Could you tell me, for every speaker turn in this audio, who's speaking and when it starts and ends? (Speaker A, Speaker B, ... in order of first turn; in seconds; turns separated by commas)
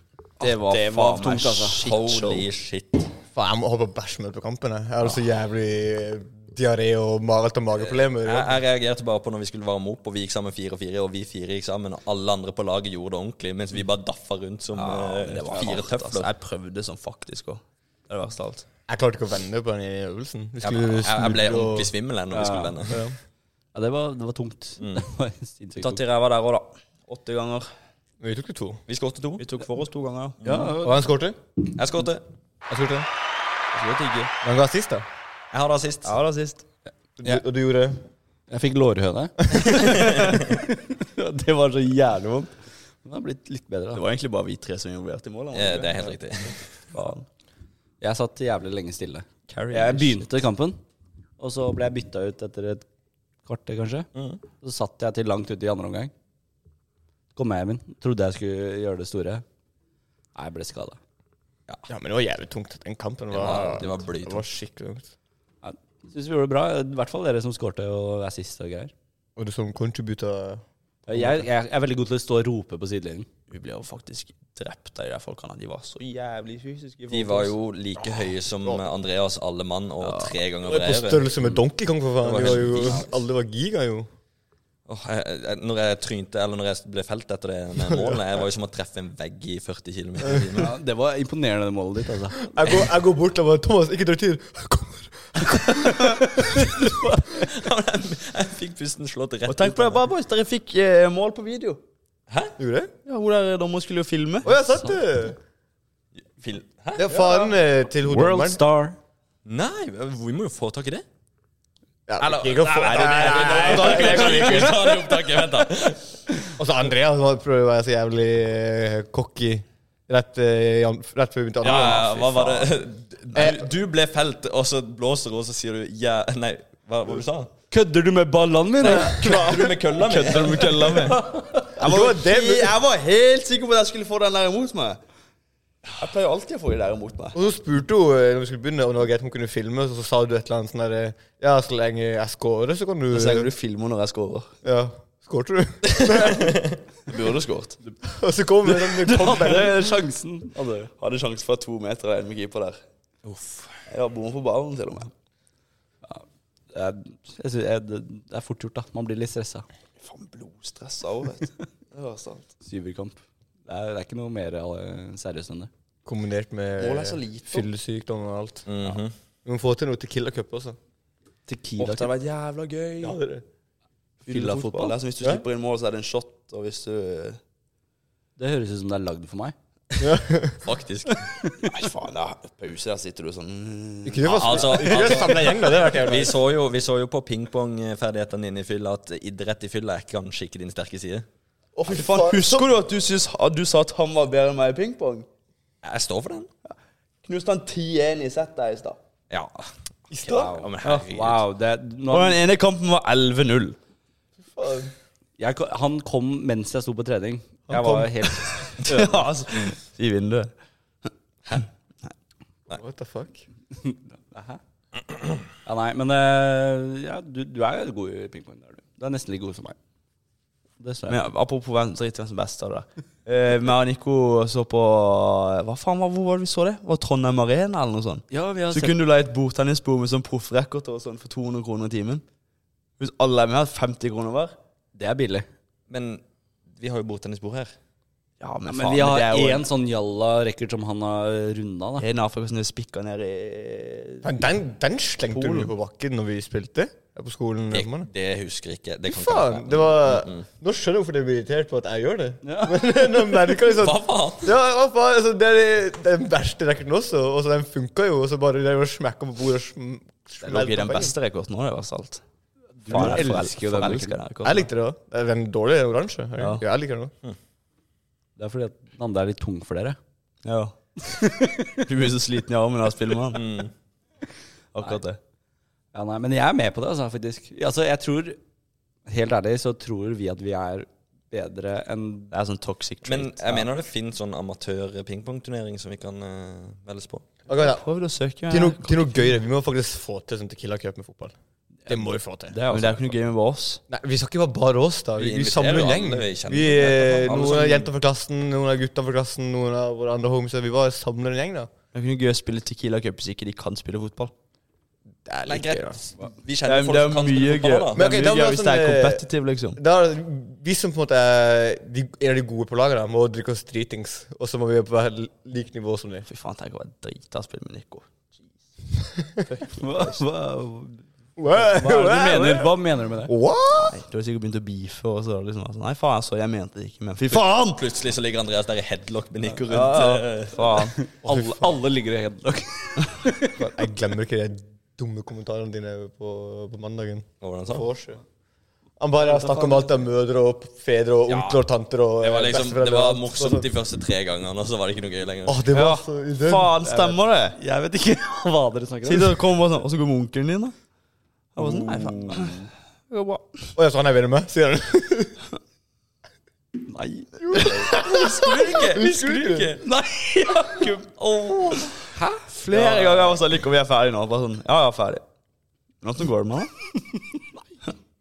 Speaker A: 0.4-1.8, Speaker B: 0.4-2.4, Speaker C: 1.8-3.1, Speaker D: 3.3-8.6, Speaker C: 7.8-16.3, Speaker B: 14.7-18.6, Speaker D: 18.9-21.9, Speaker C: 20.6-23.0, Speaker A: 22.3-23.1, Speaker A: 23.7-26.0, Speaker C: 24.8-25.0, Speaker B: 25.8-27.7, Speaker D: 28.2-28.8, Speaker C: 28.9-29.4, Speaker B: 29.4-30.7, Speaker A: 30.4-31.0, Speaker D: 30.8-31.4, Speaker C: 31.7-32.2, Speaker D: 32.7-33.1, Speaker B: 33.7-34.3, Speaker D: 34.4-35.0, Speaker C: 35.5-36.1, Speaker B: 36.0-36.6, Speaker D: 37.2-38.0, Speaker A: 38.5-44.0, Speaker C: 39.6-40.5, Speaker B: 43.9-46.1, Speaker C: 45.5-46.7, Speaker B: 46.9-47.2, Speaker A: 48.0-50.8, Speaker B: 49.5-50.3, Speaker A: 51.4-52.9, Speaker A: 53.4-54.1, Speaker C: 54.1-54.4, Speaker A: 54.6-56.1, Speaker A: 57.4-59.4, Speaker A: 60.4-61.0, Speaker D: 61.9-65.1, Speaker C: 63.3-64.5, Speaker A: 65.6-68.9, Speaker D: 69.4-71.4, Speaker A: 71.1-73.3, Speaker B: 73.5-77.5, Speaker C: 77.1-81.3, Speaker B: 80.0-80.4, Speaker D: 80.6-84.1, Speaker C: 82.2-83.1, Speaker C: 84.9-90.7, Speaker D: 87.8-88.2, Speaker A: 90.5-92.5, Speaker D: 92.4-96.2, Speaker A: 95.4-97.5, Speaker C: 97.3-100.0, Speaker B: 99.5-101.8, Speaker C: 102.3-102.5, Speaker D: 102.6-102.9, Speaker B: 103.0-104.5, Speaker D: 104.4-105.4, Speaker C: 106.4-107.1, Speaker D: 107.0-108.6, Speaker A: 108.0-109.0, Speaker C: 109.5-111.0, Speaker D: 112.1-115.0, Speaker C: 112.2-116.0, Speaker B: 113.0-114.7, Speaker A: 113.5-114.2, Speaker D: 116.6-122.7, Speaker C: 121.6-127.5, Speaker D: 123.3-123.7, Speaker A: 127.7-129.5, Speaker C: 128.8-131.2, Speaker D: 129.2-129.6, Speaker B: 129.2-135.0, Speaker A: 130.5-131.1, Speaker D: 131.8-132.8, Speaker B: 136.0-137.4, Speaker D: 137.3-143.5, Speaker B: 143.1-144.5, Speaker D: 144.6-146.6, Speaker C: 146.0-146.7, Speaker B: 147.1-147.8, Speaker D: 148.0-149.9, Speaker A: 148.7-150.9, Speaker B: 151.0-152.8, Speaker C: 153.2-153.8, Speaker B: 153.9-155.1, Speaker A: 156.0-159.6, Speaker B: 160.0-162.5, Speaker A: 162.6-165.7, Speaker D: 166.0-168.7, Speaker B: 166.8-167.7, Speaker C: 168.7-169.1, Speaker D: 169.4-170.8, Speaker A: 171.5-172.1, Speaker B: 171.8-173.2, Speaker D: 173.0-173.4, Speaker B: 174.2-177.4, Speaker A: 174.3-175.0, Speaker A: 178.4-179.5, Speaker D: 180.0-180.6, Speaker C: 180.6-181.2, Speaker A: 181.4-181.7, Speaker B: 181.6-185.3, Speaker D: 184.0-186.4, Speaker C: 184.2-191.2, Speaker B: 191.8-195.3, Speaker D: 191.8-192.7, Speaker C: 195.8-196.5, Speaker B: 196.7-199.0, Speaker C: 199.3-199.7, Speaker D: 200.1-200.6, Speaker C: 200.2-201.4, Speaker A: 200.3-202.4, Speaker B: 202.1-203.8, Speaker D: 204.5-204.9, Speaker A: 205.4-209.3, Speaker D: 207.7-208.1, Speaker B: 208.6-210.5, Speaker D: 212.7-213.4, Speaker A: 213.8-214.6, Speaker A: 215.6-219.8, Speaker A: 220.8-221.2, Speaker B: 221.1-232.2, Speaker A: 228.3-228.9, Speaker B: 233.0-234.6, Speaker A: 234.9-235.5, Speaker C: 235.9-236.2, Speaker C: 236.8-237.7, Speaker B: 238.4-239.7, Speaker A: 238.7-242.0, Speaker B: 242.0-244.3, Speaker D: 244.2-248.1, Speaker B: 245.3-245.7, Speaker C: 247.7-250.4, Speaker D: 249.1-261.1, Speaker A: 252.4-252.9, Speaker C: 253.7-254.5, Speaker B: 260.4-262.2, Speaker A: 262.8-264.2, Speaker B: 262.9-264.7, Speaker D: 264.4-267.1, Speaker B: 266.4-266.6, Speaker A: 268.4-270.0, Speaker B: 270.4-270.8, Speaker A: 271.0-271.9, Speaker B: 271.8-273.4, Speaker C: 273.3-273.7, Speaker B: 274.7-275.2, Speaker A: 275.9-278.4, Speaker A: 279.1-282.3, Speaker B: 282.3-283.6, Speaker C: 283.0-287.2, Speaker D: 287.5-287.8, Speaker B: 287.5-289.3, Speaker D: 288.5-291.3, Speaker A: 291.9-293.1, Speaker D: 291.9-292.6, Speaker B: 292.7-293.8, Speaker D: 293.9-301.7, Speaker C: 295.2-297.9, Speaker B: 301.9-304.3, Speaker D: 305.2-306.1, Speaker C: 305.4-308.0, Speaker B: 306.6-309.8, Speaker D: 307.9-309.2, Speaker D: 309.8-316.2, Speaker B: 316.2-318.4, Speaker B: 319.4-320.2, Speaker A: 319.8-321.0, Speaker D: 321.4-322.7, Speaker A: 321.5-323.3, Speaker D: 323.3-324.0, Speaker B: 323.7-327.8, Speaker C: 327.3-330.8, Speaker B: 329.7-331.0, Speaker A: 330.9-333.6, Speaker D: 331.2-331.7, Speaker D: 333.6-338.2, Speaker C: 337.4-337.9, Speaker D: 339.0-343.7, Speaker A: 339.2-340.0, Speaker C: 341.3-341.6, Speaker C: 342.2-345.6, Speaker D: 345.4-346.8, Speaker B: 345.7-347.6, Speaker A: 346.8-349.4, Speaker B: 349.0-350.7, Speaker B: 351.6-353.7, Speaker A: 351.6-352.7, Speaker D: 353.8-355.4, Speaker A: 356.9-357.8, Speaker D: 357.4-359.7, Speaker B: 357.5-357.9, Speaker C: 357.9-359.9, Speaker A: 359.9-361.0, Speaker C: 361.0-362.0, Speaker A: 362.1-362.4, Speaker B: 362.5-365.2, Speaker C: 362.8-363.2, Speaker B: 366.0-366.7